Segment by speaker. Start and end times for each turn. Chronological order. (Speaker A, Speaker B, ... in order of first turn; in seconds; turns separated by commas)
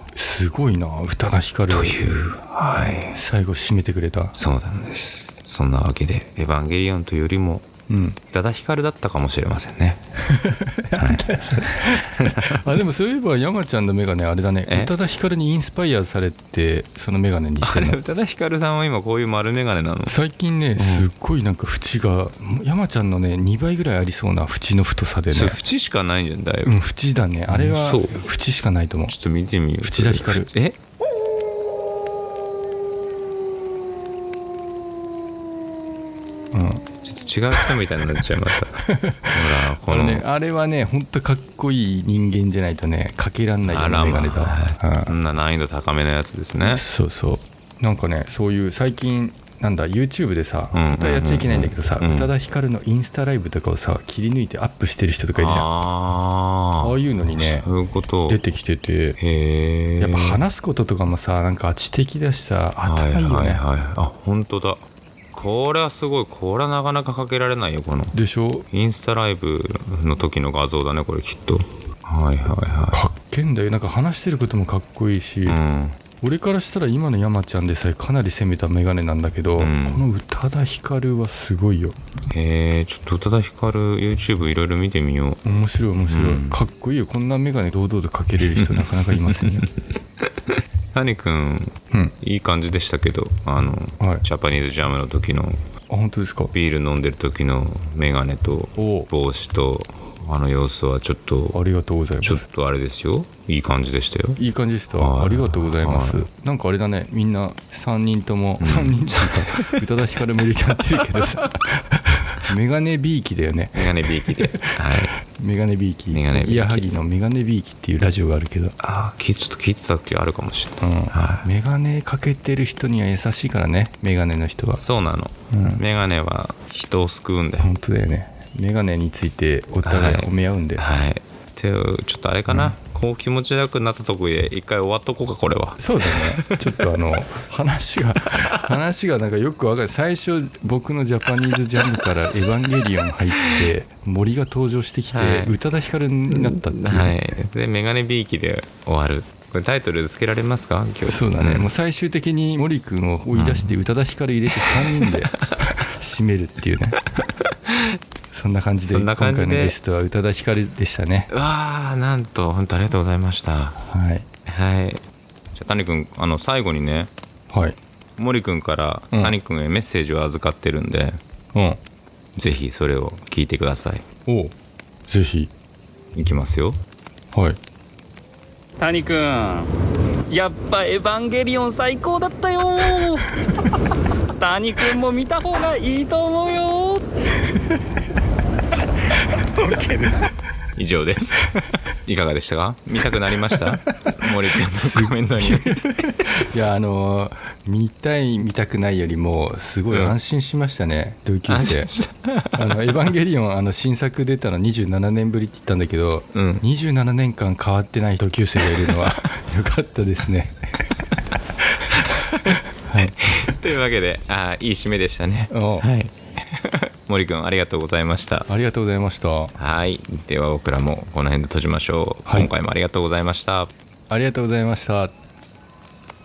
Speaker A: 0.1-2.0, Speaker B: 1.7-3.2, Speaker A: 3.1-4.3, Speaker B: 4.3-7.7, Speaker A: 7.9-8.2, Speaker B: 8.3-10.0, Speaker A: 10.3-18.0, Speaker B: 11.0-12.6, Speaker B: 14.7-14.9, Speaker B: 17.6-20.2, Speaker A: 20.1-25.6, Speaker B: 20.8-21.1, Speaker B: 25.3-26.7, Speaker A: 26.6-29.1, Speaker B: 27.5-28.2, Speaker B: 29.1-30.8, Speaker A: 29.8-30.5, Speaker A: 36.5-36.8, Speaker B: 37.0-38.8, Speaker A: 38.8-45.1, Speaker B: 39.3-40.2, Speaker B: 43.6-46.8, Speaker A: 46.6-55.7, Speaker B: 50.7-52.3, Speaker B: 55.3-58.4, Speaker A: 56.8-57.7, Speaker A: 58.3-59.2, Speaker B: 59.2-60.4, Speaker A: 60.0-63.6, Speaker B: 62.8-68.2, Speaker A: 68.1-68.7, Speaker B: 68.7-73.0, Speaker A: 72.9-75.6, Speaker B: 75.5-76.0, Speaker A: 76.2-82.0, Speaker B: 79.6-80.0, Speaker B: 82.3-85.4, Speaker A: 85.4-89.7, Speaker B: 86.1-86.6, Speaker B: 88.4-89.7, Speaker B: 90.5-95.6, Speaker A: 94.0-94.2, Speaker A: 95.9-96.5, Speaker B: 96.5-101.6, Speaker A: 98.8-99.1, Speaker A: 101.5-102.4, Speaker B: 102.2-104.4, Speaker A: 104.4-118.7, Speaker B: 104.9-106.3, Speaker B: 108.6-109.8, Speaker B: 111.0-111.3, Speaker B: 113.7-115.1, Speaker B: 116.1-116.9, Speaker B: 118.8-121.5, Speaker A: 120.8-124.8, Speaker B: 124.8-127.7, Speaker A: 125.5-125.8, Speaker A: 127.6-130.8, Speaker B: 129.8-136.9, Speaker A: 132.5-132.8, Speaker A: 135.8-147.1, Speaker B: 145.1-145.6, Speaker B: 146.3-151.7, Speaker A: 151.1-157.0, Speaker B: 153.3-153.7, Speaker B: 154.5-155.3, Speaker A: 158.3-161.3, Speaker B: 158.9-159.7, Speaker B: 161.3-163.8, Speaker A: 163.9-164.2, Speaker B: 164.5-165.0, Speaker B: 165.5-167.1, Speaker A: 167.5-167.8, Speaker B: 168.2-171.2, Speaker A: 169.1-169.4, Speaker A: 171.5-171.8, Speaker B: 172.3-174.0, Speaker A: 174.3-174.5, Speaker A: 175.1-175.5, Speaker B: 176.1-176.8, Speaker A: 177.3-177.6, Speaker C: 178.8-179.7, Speaker C: 180.3-183.2, Speaker C: 184.4-187.0, Speaker C: 189.6-190.1, Speaker B: 190.8-195.8, Speaker A: 194.8-201.9, Speaker B: 199.9-200.2, Speaker B: 201.5-202.9, Speaker A: 202.6-210.6, Speaker B: 206.3-206.6, Speaker B: 208.6-209.0, Speaker A: 212.0-213.5, Speaker B: 213.0-218.5, Speaker A: 215.5-215.8, Speaker A: 218.5-219.5, Speaker B: 219.6-223.7, Speaker A: 222.2-222.5, Speaker A: 224.1-225.1